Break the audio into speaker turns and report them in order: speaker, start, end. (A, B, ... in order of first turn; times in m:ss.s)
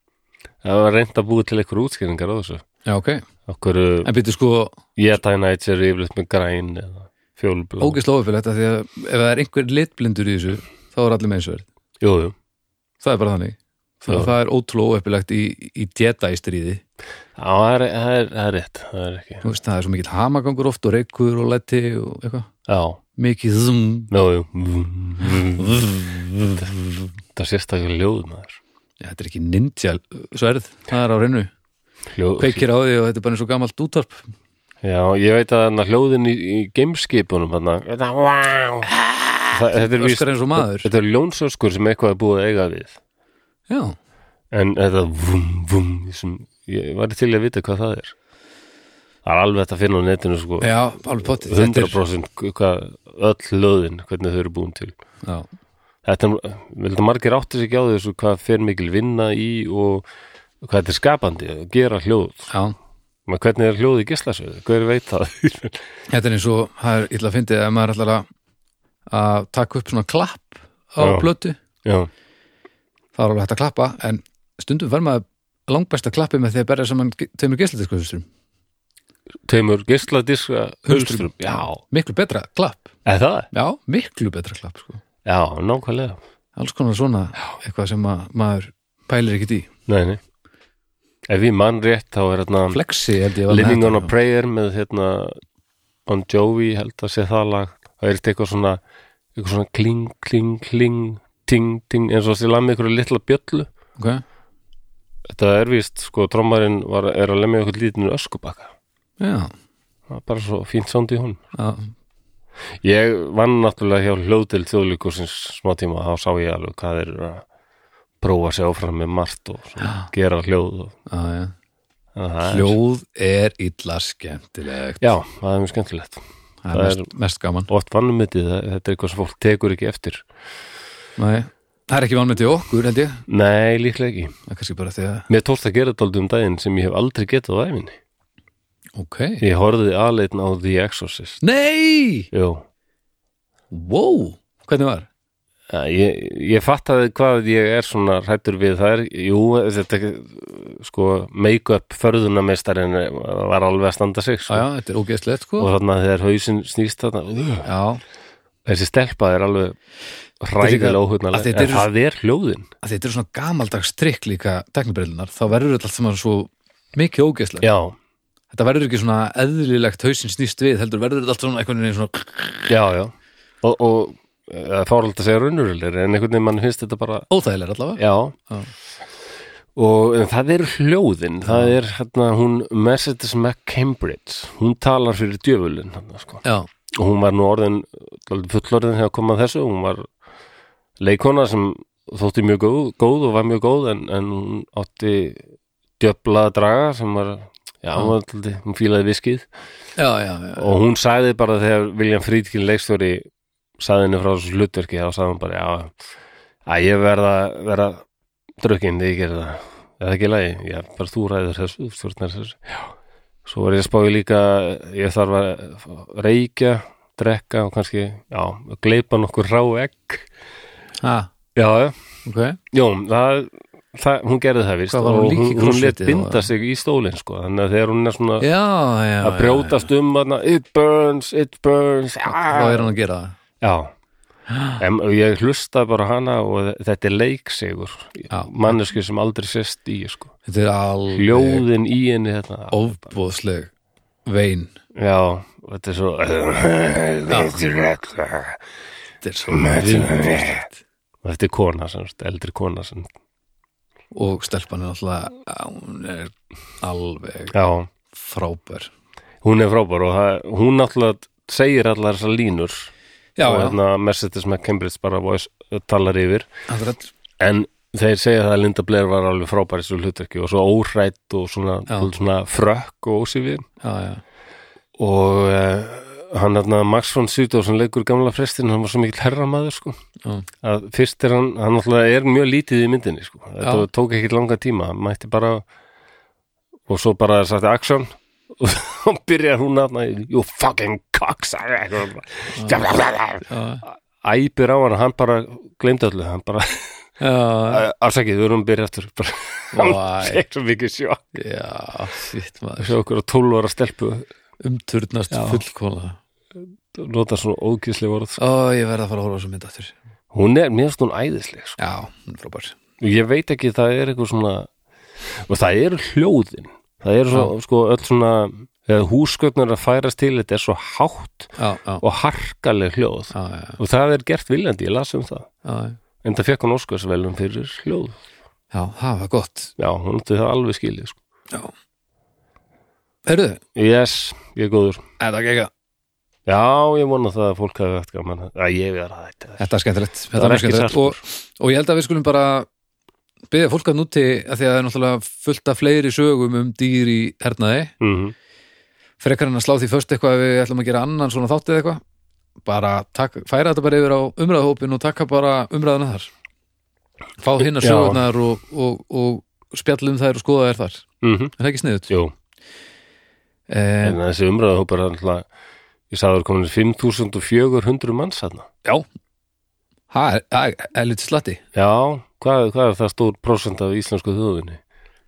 0:00.6-0:02.6 A
0:02.8-0:03.2 B
0:03.5-0:04.1 A
0:04.0-0:04.8 B
0:05.0-0:08.0 A
0:07.8-0:11.6 B
0:12.0-0:12.3 A
0:13.0-0:16.8 B
0:14.1-0:14.3 A
0:17.4-0:19.4 A
0:19.4-0:22.5 B
0:22.7-0:23.0 A
0:23.2-0:24.1 B
0:24.1-0:28.6 A
0:25.6-0:26.1 B
0:29.0-0:31.5 B
0:32.1-0:32.6 A
0:32.4-0:34.2 B
0:34.8-0:38.9 A
0:39.5-0:43.0 A
0:39.5-0:40.9 B
0:43.7-0:44.0 B
0:44.5-0:48.1 A
0:49.2-0:50.7 A
0:50.6-0:52.0 B
0:51.2-0:54.9 A
0:56.0-1:00.0 A
1:00.6-1:02.5 A
1:02.5-1:02.7 B
1:03.3-1:05.8 A
1:06.1-1:08.2 B
1:09.1-1:11.6 B
1:11.0-1:11.3 A
1:11.8-1:12.1 A
1:13.1-1:18.2 B
1:19.4-1:21.8 A
1:20.8-1:22.9 B
1:23.0-1:23.5 A
1:23.5-1:25.0 B
1:25.2-1:26.2 A
1:26.6-1:29.7 B
1:29.9-1:30.2 A
1:31.3-1:32.8 A
1:32.7-1:34.1 B
1:33.5-1:35.4 A
1:36.0-1:38.8 A
1:39.3-1:43.7 A
1:44.0-1:44.2 B
1:45.3-1:48.7 A
1:49.2-1:49.5 B
1:50.1-1:51.4 A
1:51.5-1:51.9 B
1:52.8-1:57.4 A
1:58.2-2:00.9 A
1:59.8-2:00.1 B
2:01.1-2:01.5 B
2:02.1-2:02.8 A
2:02.4-2:05.0 B
2:05.0-2:07.1 A
2:06.6-2:07.7 B
2:07.7-2:10.2 A
2:11.2-2:13.2 B
2:13.3-2:14.3 A
2:14.5-2:15.3 B
2:15.3-2:18.0 A
2:19.0-2:19.4 B
2:19.4-2:21.4 A
2:21.4-2:22.3 B
2:22.3-2:22.6 A
2:23.7-2:25.1 B
2:25.7-2:34.6 A
2:34.5-2:35.7 B
2:35.6-2:37.7 A
2:37.6-2:38.0 B
2:38.6-2:39.8 A
2:40.4-2:42.7 A
2:40.6-2:41.9 B
2:42.8-2:47.7 B
2:47.6-2:47.9 A
2:48.5-2:52.7 B
2:52.7-2:57.3 A
2:57.3-2:58.7 B
2:58.0-2:58.4 A
2:59.7-3:10.1 A
3:01.4-3:01.7 B
3:11.0-3:15.4 A
3:16.0-3:19.5 A
3:20.0-3:20.7 B
3:20.6-3:23.2 A
3:23.8-3:25.9 A
3:26.6-3:28.0 A
3:28.6-3:32.8 A
3:33.4-3:40.3 A
3:41.0-3:41.3 B
3:41.5-3:41.9 A
3:42.2-3:42.6 B
3:42.7-3:48.5 A
3:44.9-3:46.5 B
3:48.4-3:49.9 B
3:49.2-3:52.9 A
3:52.5-3:53.3 B
3:53.6-3:53.9 A
3:54.5-3:54.8 B
3:54.8-4:00.3 A
3:58.3-3:58.8 B
4:00.4-4:01.6 B
4:01.1-4:02.8 A
4:02.7-4:03.7 B
4:04.2-4:04.7 B
4:04.9-4:08.6 A
4:07.3-4:07.6 B
4:09.2-4:10.8 B
4:09.5-4:10.6 A
4:11.2-4:13.1 A
4:14.1-4:17.5 B
4:17.5-4:17.9 A
4:18.1-4:18.9 B
4:19.4-4:22.9 A
4:23.4-4:23.8 B
4:23.4-4:26.5 A
4:26.7-4:27.1 B
4:27.4-4:33.6 A
4:33.8-4:34.2 B
4:35.0-4:39.9 A
4:40.6-4:45.6 A
4:46.9-4:56.9 A
4:52.6-4:52.8 B
4:53.5-4:53.8 B
4:57.2-4:57.8 B
4:57.7-5:01.2 A
4:59.7-5:00.4 B
5:01.3-5:02.9 B
5:02.8-5:04.3 A
5:04.6-5:06.2 B
5:05.3-5:05.6 A
5:06.9-5:08.4 A
5:08.4-5:09.9 B
5:10.3-5:11.8 A
5:11.8-5:12.8 B
5:13.0-5:14.7 A
5:15.2-5:25.5 A
5:21.6-5:22.0 B
5:23.3-5:23.8 B
5:25.6-5:26.0 B
5:26.2-5:28.2 A
5:28.7-5:29.7 B
5:29.8-5:31.2 A
5:33.2-5:33.6 B
5:33.7-5:35.0 A
5:35.2-5:35.7 B
5:36.4-5:39.6 A
5:39.6-5:42.7 B
5:40.3-5:41.2 A
5:43.5-5:47.9 B
5:48.0-5:48.3 A
5:49.2-5:52.0 B
5:52.6-5:56.3 B
5:57.4-6:01.0 B
5:57.6-5:58.2 A
6:01.2-6:01.5 A
6:01.6-6:02.1 B
6:03.7-6:04.2 B
6:04.0-6:05.4 A
6:06.1-6:08.7 A
6:10.1-6:11.6 B
6:11.7-6:14.8 A